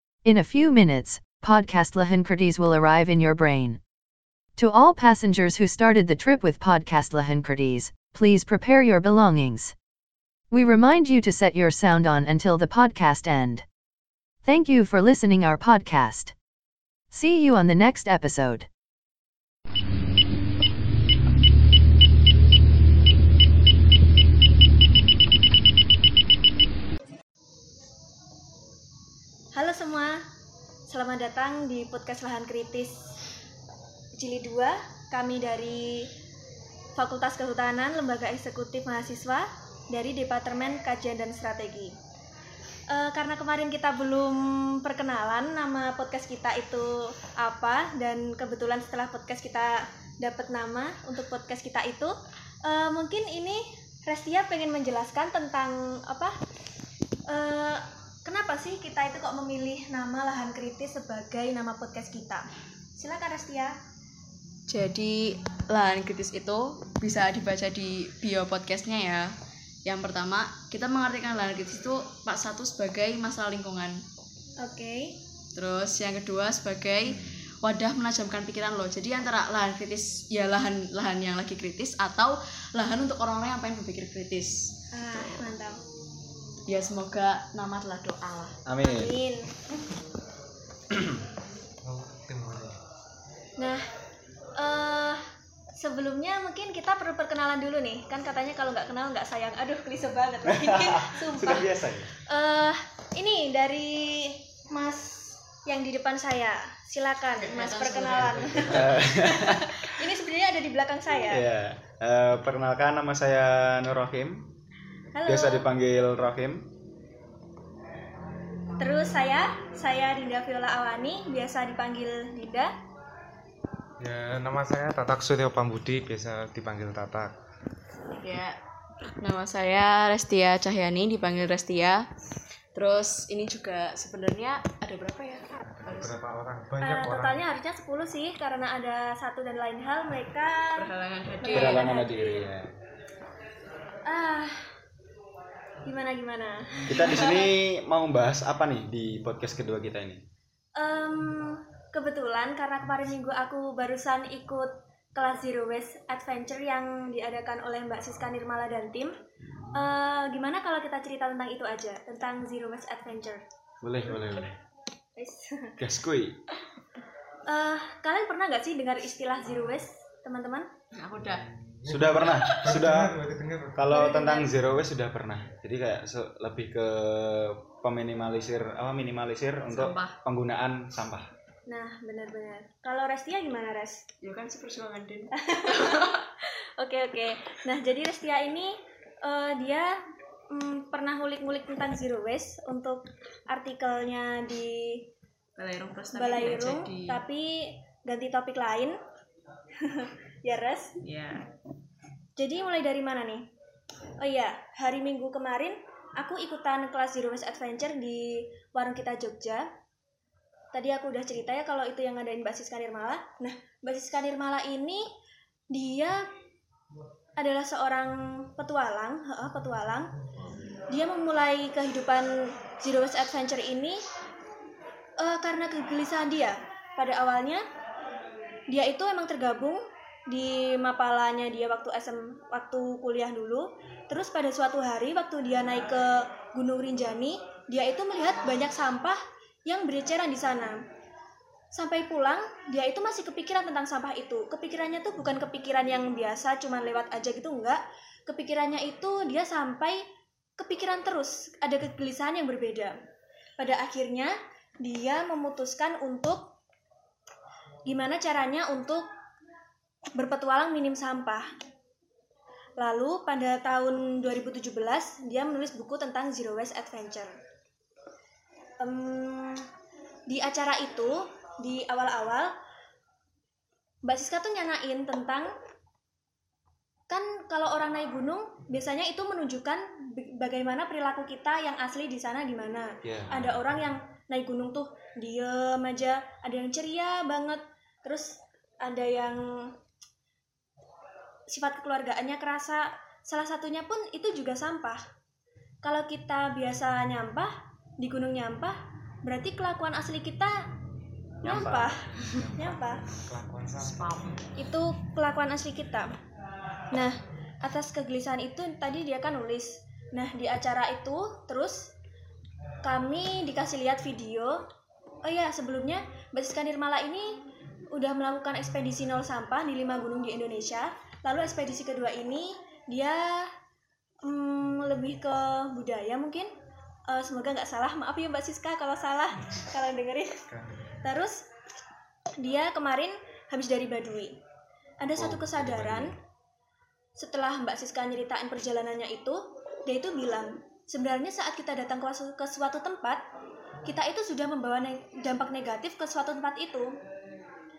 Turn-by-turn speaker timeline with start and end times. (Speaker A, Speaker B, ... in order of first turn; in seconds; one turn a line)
Speaker A: 0.2-3.8
Speaker A: 4.5-9.7
Speaker A: 10.5-13.6
Speaker A: 14.4-16.3
Speaker A: 17.1-18.7
Speaker B: 29.5-30.2
Speaker B: 30.9-33.0
Speaker B: 34.2-36.1
Speaker B: 37.0-41.9
Speaker B: 42.9-56.3
Speaker B: 57.3-63.7
Speaker C: 64.7-74.0
Speaker B: 74.6-75.2
Speaker C: 75.5-85.4
Speaker B: 84.9-85.8
Speaker C: 86.7-88.6
Speaker D: 88.7-89.2
Speaker B: 88.8-89.5
Speaker D: 90.9-91.2
Speaker E: 91.8-92.8
Speaker B: 93.6-93.8
Speaker B: 94.6-95.2
Speaker B: 95.8-111.5
Speaker D: 100.5-102.1
Speaker C: 107.4-108.6
Speaker E: 108.1-109.1
Speaker D: 108.6-109.9
Speaker D: 111.3-114.5
Speaker B: 115.1-115.7
Speaker D: 115.2-116.7
Speaker B: 118.8-122.7
Speaker E: 124.0-127.3
Speaker C: 128.1-132.0
Speaker C: 132.7-136.2
Speaker E: 135.6-137.4
Speaker B: 136.8-140.9
Speaker C: 140.8-141.9
Speaker B: 141.4-142.5
Speaker D: 141.5-142.7
Speaker B: 144.1-144.7
Speaker B: 145.8-147.5
Speaker D: 146.9-150.2
Speaker B: 150.8-159.1
Speaker D: 159.5-159.9
Speaker B: 159.7-163.4
Speaker D: 163.8-164.6
Speaker B: 165.2-165.7
Speaker D: 165.8-166.4
Speaker B: 167.5-170.7
Speaker C: 170.9-171.4
Speaker E: 171.2-173.8
Speaker D: 171.8-173.2
Speaker C: 172.2-172.7
Speaker D: 173.7-181.3
Speaker B: 173.9-174.5
Speaker C: 179.7-180.2
Speaker B: 181.7-184.0
Speaker C: 184.2-186.2
Speaker B: 185.3-190.0
Speaker B: 190.5-195.1
Speaker C: 195.6-197.2
Speaker B: 196.1-199.0
Speaker B: 199.8-200.9
Speaker C: 201.0-201.5
Speaker B: 202.4-203.4
Speaker B: 204.2-209.7
Speaker B: 210.7-215.1
Speaker B: 215.7-216.2
Speaker B: 217.4-220.1
Speaker B: 220.9-224.0
Speaker B: 225.2-227.6
Speaker B: 228.7-240.8
Speaker B: 241.7-250.0
Speaker B: 250.6-252.9
Speaker B: 253.6-256.5
Speaker B: 257.9-259.1
Speaker B: 260.1-261.4
Speaker B: 262.8-267.3
Speaker B: 268.8-269.7
Speaker B: 270.3-272.5
Speaker B: 274.0-275.5
Speaker B: 277.1-289.7
Speaker D: 283.0-283.6
Speaker B: 291.5-295.0
Speaker B: 295.8-300.7
Speaker D: 301.4-302.0
Speaker B: 301.4-303.0
Speaker E: 302.1-304.5
Speaker C: 303.8-304.4
Speaker B: 304.6-306.1
Speaker B: 306.9-311.9
Speaker B: 312.8-314.7
Speaker B: 315.2-317.4
Speaker B: 317.9-323.5
Speaker B: 324.2-326.5
Speaker B: 327.1-330.4
Speaker E: 330.5-330.9
Speaker B: 331.0-331.4
Speaker B: 332.4-334.4
Speaker B: 335.0-336.1
Speaker D: 335.1-336.1
Speaker B: 337.2-343.2
Speaker B: 343.9-346.9